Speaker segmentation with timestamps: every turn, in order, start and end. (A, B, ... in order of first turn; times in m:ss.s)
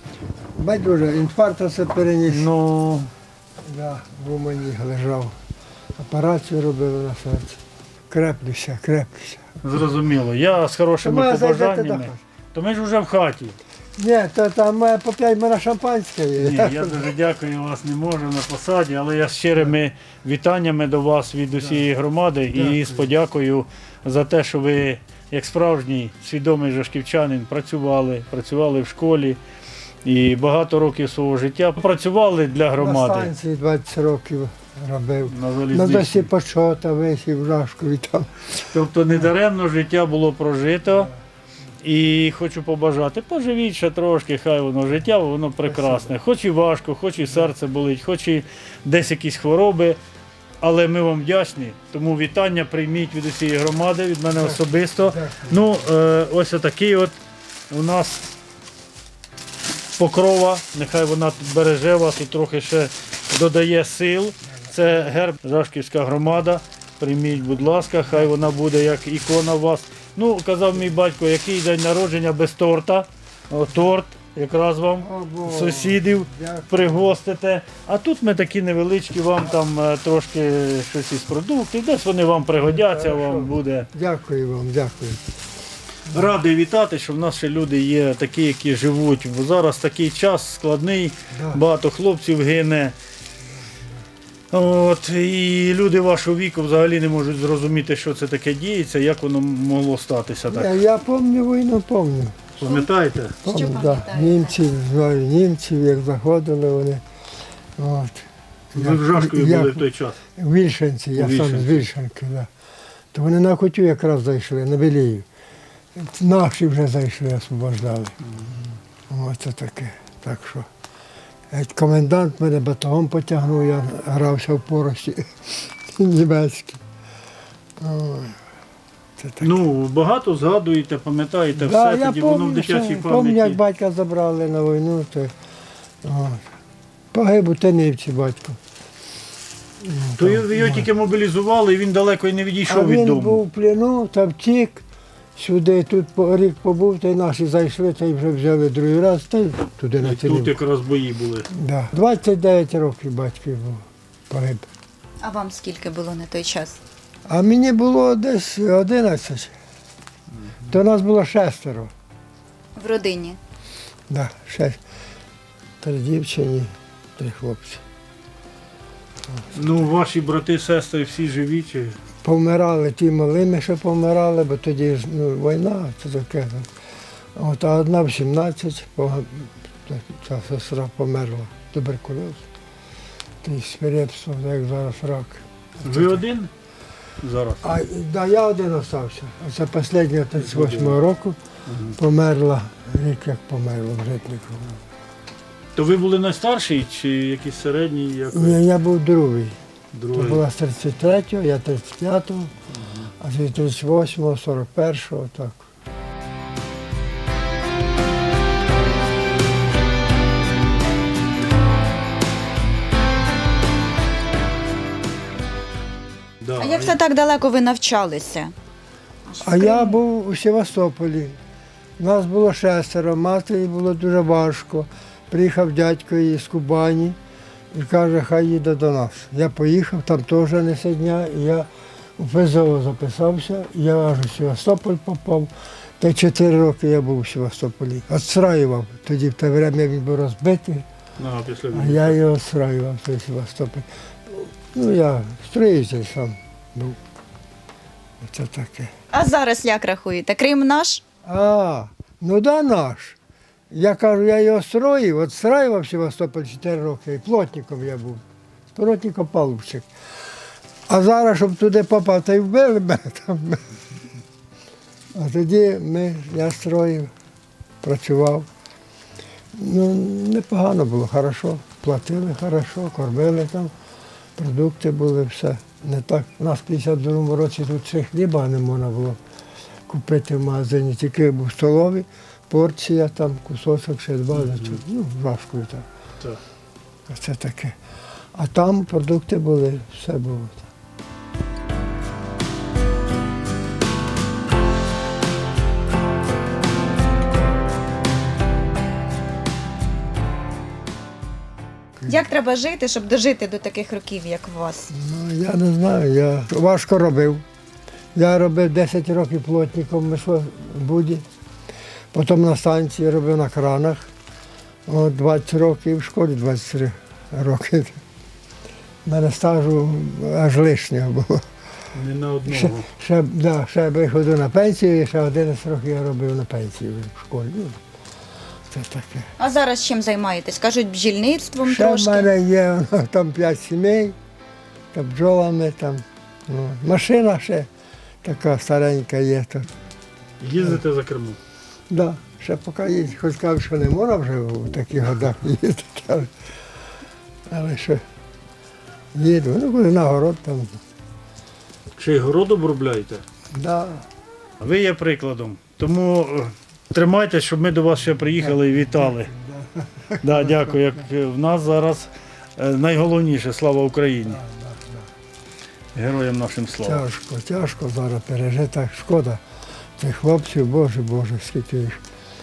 0:00.6-0:02.5 A
0:02.2-0:03.1 B
0:03.6-0:05.3 A
0:06.0-0:07.6 A
0:08.1-0:09.5 A
0:09.6-0:13.6 B
0:11.0-0:12.2 A
0:14.0-0:17.1 A
0:16.4-0:29.4 B
0:22.5-0:23.1 A
0:30.0-0:33.3 B
0:32.8-0:38.6 A
0:35.3-0:36.3 B
0:38.7-0:41.1 B
0:41.8-0:50.0 B
0:45.8-0:46.1 A
0:50.6-0:57.1 B
0:54.3-0:55.6 A
0:57.7-0:58.3 B
1:00.0-1:23.9 B
1:15.0-1:17.1 A
1:22.6-1:25.2 A
1:26.1-1:32.9 B
1:31.3-1:31.6 A
1:34.5-1:40.8 B
1:40.5-1:42.6 A
1:42.6-1:43.4 B
1:43.4-1:47.0 A
1:43.4-1:44.6 C
1:47.8-1:52.5 A
1:48.7-1:50.2 B
1:51.1-1:51.9 B
1:53.1-1:55.2 A
1:56.0-1:58.2 A
1:58.3-1:58.6 B
1:59.1-2:00.7 A
2:01.5-2:05.3 A
2:05.9-2:06.8 A
2:07.8-2:08.4 A
2:09.2-2:09.5 A
2:09.4-2:13.6 B
2:11.5-2:15.3 A
2:16.0-2:16.4 A
2:17.1-2:18.6 A
2:19.8-2:20.9 A
2:20.2-2:23.4 B
2:22.7-2:24.8 A
2:25.4-2:30.6 A
2:30.0-2:31.5 B
2:31.5-2:34.7 A
2:35.2-2:36.8 C
2:37.3-2:39.5 A
2:40.7-2:41.9 A
2:42.8-2:43.4 C
2:44.1-2:44.8 A
2:45.8-2:47.8 A
2:49.3-2:49.8 A
2:49.5-2:52.0 B
2:52.2-2:56.7 A
2:57.4-3:02.4 A
3:03.4-3:06.2 A
3:05.8-3:06.5 B
3:07.2-3:07.6 B
3:07.6-3:11.4 A
3:10.4-3:11.0 B
3:11.7-3:12.0 B
3:12.0-3:14.8 A
3:15.8-3:18.6 B
3:18.3-3:19.6 A
3:19.9-3:20.4 B
3:20.1-3:22.5 A
3:22.8-3:23.1 B
3:23.2-3:25.6 A
3:36.4-3:36.9 B
3:36.5-3:38.5 C
3:39.3-3:40.0 C
3:39.4-3:41.4 A
3:42.0-3:47.2 A
3:47.7-4:00.8 A
4:01.2-4:02.2 B
4:01.7-4:07.0 A
4:08.2-4:08.9 A
4:09.1-4:11.0 C
4:11.2-4:13.2 A
4:13.7-4:18.2 A
4:18.7-4:19.9 A
4:20.9-4:23.6 A
4:25.1-4:27.1 A
4:27.8-4:28.5 A
4:29.5-4:33.7 A
4:34.4-4:39.2 A
4:39.9-4:45.8 A
4:44.3-4:44.8 B
4:47.1-4:47.7 A
4:48.3-4:50.7 A
5:02.0-5:04.9 C
5:04.9-5:07.4 A
5:08.1-5:11.2 A
5:12.1-5:14.1 A
5:14.8-5:18.0 A
5:19.0-5:21.4 A
5:21.9-5:22.9 B
5:22.4-5:27.8 A
5:28.7-5:29.3 A
5:29.4-5:32.3 C
5:31.6-5:34.2 A
5:34.9-5:37.7 A
5:38.2-5:39.7 A
5:40.4-5:41.4 B
5:41.9-5:46.3 A
5:47.5-5:48.0 A
5:49.1-5:50.8 A
5:52.0-5:53.2 B
5:53.5-5:54.1 A
5:54.6-5:59.3 B
5:58.4-6:01.0 A
6:00.2-6:04.4 B
6:04.3-6:05.1 A
6:05.9-6:07.0 B
6:06.8-6:09.4 A
6:10.0-6:12.0 A